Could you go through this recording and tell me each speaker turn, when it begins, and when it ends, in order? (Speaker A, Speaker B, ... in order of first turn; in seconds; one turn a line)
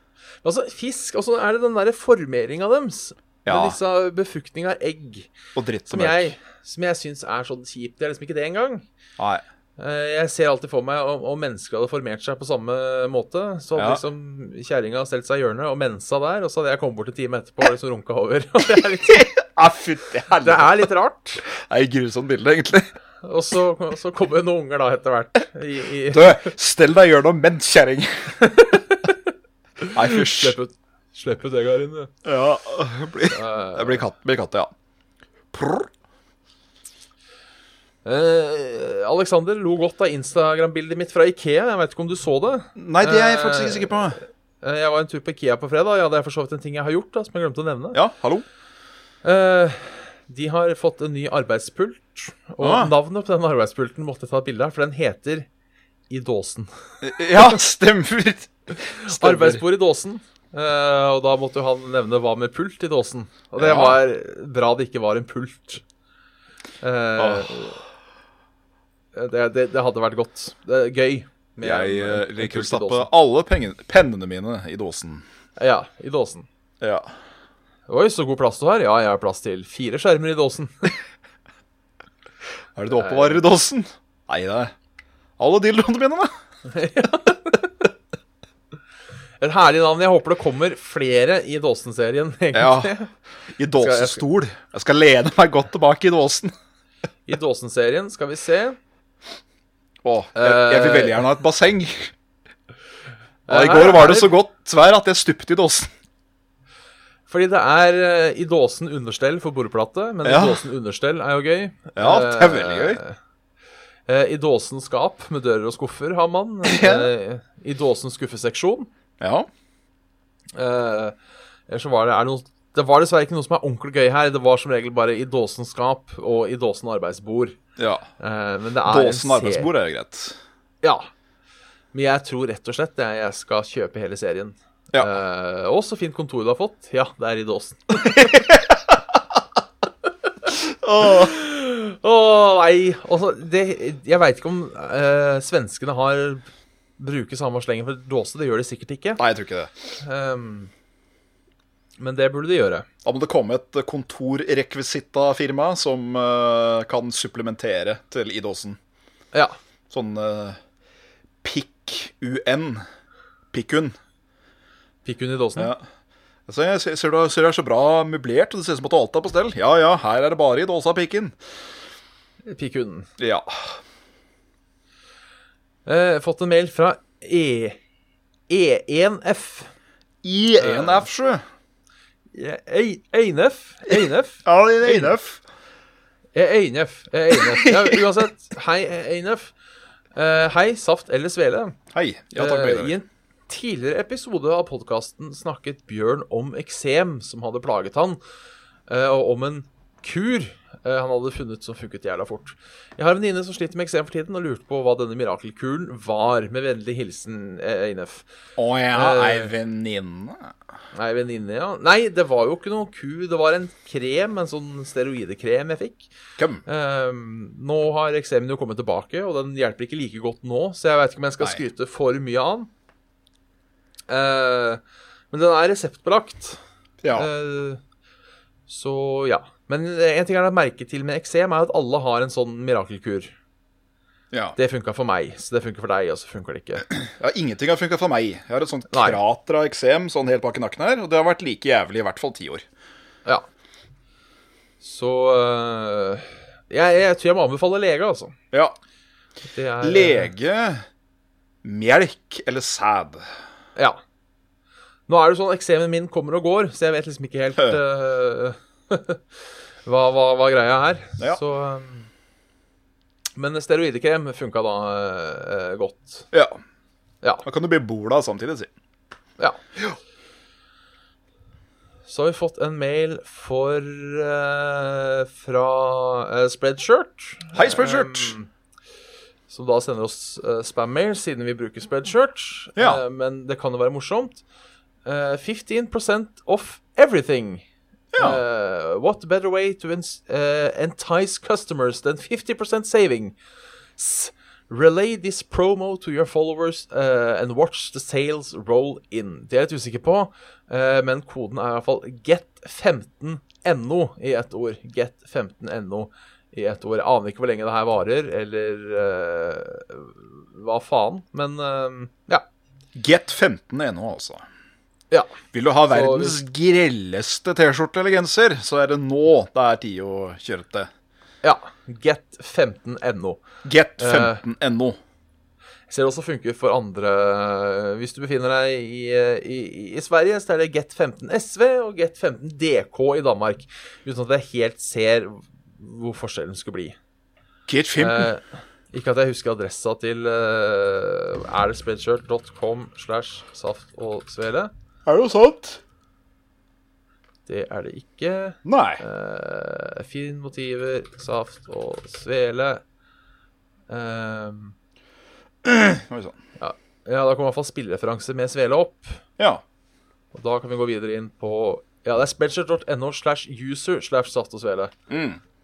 Speaker A: 0.4-5.3
Speaker B: 3.4-3.8
Speaker B: 5.5-6.3
Speaker A: 5.9-8.8
Speaker B: 9.2-9.4
Speaker A: 9.8-19.3
Speaker B: 13.8-14.0
Speaker B: 19.1-20.9
Speaker A: 20.4-21.4
Speaker B: 21.5-22.9
Speaker A: 23.2-26.5
Speaker B: 26.1-28.4
Speaker A: 28.4-29.2
Speaker A: 29.8-32.1
Speaker B: 29.9-30.6
Speaker B: 32.2-34.7
Speaker A: 33.3-34.0
Speaker B: 35.5-35.9
Speaker A: 38.0-48.0
Speaker B: 42.8-44.2
Speaker B: 47.9-48.4
Speaker A: 49.2-55.5
Speaker B: 52.6-52.9
Speaker A: 56.1-56.7
Speaker B: 57.0-59.6
Speaker A: 59.0-65.8
Speaker B: 63.6-64.0
Speaker A: 66.8-67.8
Speaker B: 67.2-67.6
Speaker A: 69.1-73.1
Speaker B: 71.6-75.2
Speaker A: 75.6-76.5
Speaker B: 76.8-77.1
Speaker A: 77.9-81.0
Speaker B: 82.8-84.7
Speaker A: 82.9-83.4
Speaker B: 85.4-86.3
Speaker A: 86.7-87.7
Speaker A: 89.4-93.1
Speaker B: 92.5-92.9
Speaker B: 93.5-96.5
Speaker A: 93.7-94.2
Speaker A: 97.3-98.8
Speaker B: 100.0-102.1
Speaker A: 100.3-101.2
Speaker A: 103.5-104.3
Speaker B: 103.5-105.9
Speaker A: 107.3-113.2
Speaker B: 110.2-110.6
Speaker B: 112.0-113.0
Speaker A: 114.1-118.9
Speaker B: 116.6-117.1
Speaker B: 119.2-119.5
Speaker A: 120.5-121.2
Speaker A: 121.7-127.5
Speaker B: 127.8-128.1
Speaker A: 128.2-129.7
Speaker B: 128.8-130.4
Speaker A: 130.8-131.1
Speaker A: 131.9-138.5
Speaker B: 138.2-138.7
Speaker B: 140.6-141.3
Speaker A: 141.0-146.4
Speaker A: 147.0-149.2
Speaker B: 149.2-149.7
Speaker A: 150.0-150.7
Speaker A: 152.0-152.9
Speaker B: 153.0-158.8
Speaker B: 159.9-160.6
Speaker B: 161.4-162.8
Speaker B: 163.5-163.9
Speaker A: 165.0-165.7
Speaker B: 165.6-165.8
Speaker B: 166.5-171.4
Speaker A: 172.4-173.1
Speaker B: 173.2-173.8
Speaker A: 175.8-177.8
Speaker A: 178.5-179.7
Speaker B: 180.2-181.4
Speaker A: 180.6-181.1
Speaker A: 182.3-185.1
Speaker B: 183.9-185.4
Speaker A: 186.3-189.5
Speaker B: 187.3-188.0
Speaker A: 190.1-191.8
Speaker B: 191.9-192.9
Speaker A: 192.3-198.2
Speaker A: 198.9-208.2
Speaker B: 208.6-210.5
Speaker A: 208.9-209.5
Speaker A: 210.9-216.1
Speaker B: 216.4-216.6
Speaker A: 216.7-222.7
Speaker A: 224.1-226.6
Speaker B: 227.0-227.3
Speaker A: 227.1-227.8
Speaker A: 228.7-233.3
Speaker A: 234.6-236.9
Speaker B: 237.0-242.6
Speaker A: 238.9-239.2
Speaker A: 244.8-248.3
Speaker A: 249.5-250.3
Speaker B: 249.8-250.8
Speaker B: 251.6-253.3
Speaker A: 255.1-259.2
Speaker A: 259.8-262.1
Speaker A: 263.4-266.3
Speaker B: 266.3-266.6
Speaker B: 267.4-268.7
Speaker A: 272.1-278.5
Speaker B: 277.5-278.3
Speaker A: 279.5-284.4
Speaker B: 282.8-283.0
Speaker A: 285.0-287.6
Speaker B: 288.1-288.4
Speaker A: 288.2-293.4
Speaker A: 294.0-312.4
Speaker B: 312.9-314.4
Speaker B: 315.5-320.9
Speaker A: 315.9-316.4
Speaker A: 321.4-323.4
Speaker B: 323.6-325.0
Speaker A: 324.0-324.4
Speaker A: 325.9-337.0
Speaker B: 337.7-338.3
Speaker A: 338.0-344.7
Speaker B: 345.1-345.8
Speaker A: 347.5-352.8
Speaker B: 348.6-349.0
Speaker A: 353.9-354.7
Speaker B: 355.6-356.4
Speaker A: 356.6-359.2
Speaker B: 359.4-359.6
Speaker A: 360.3-364.9
Speaker B: 365.1-365.4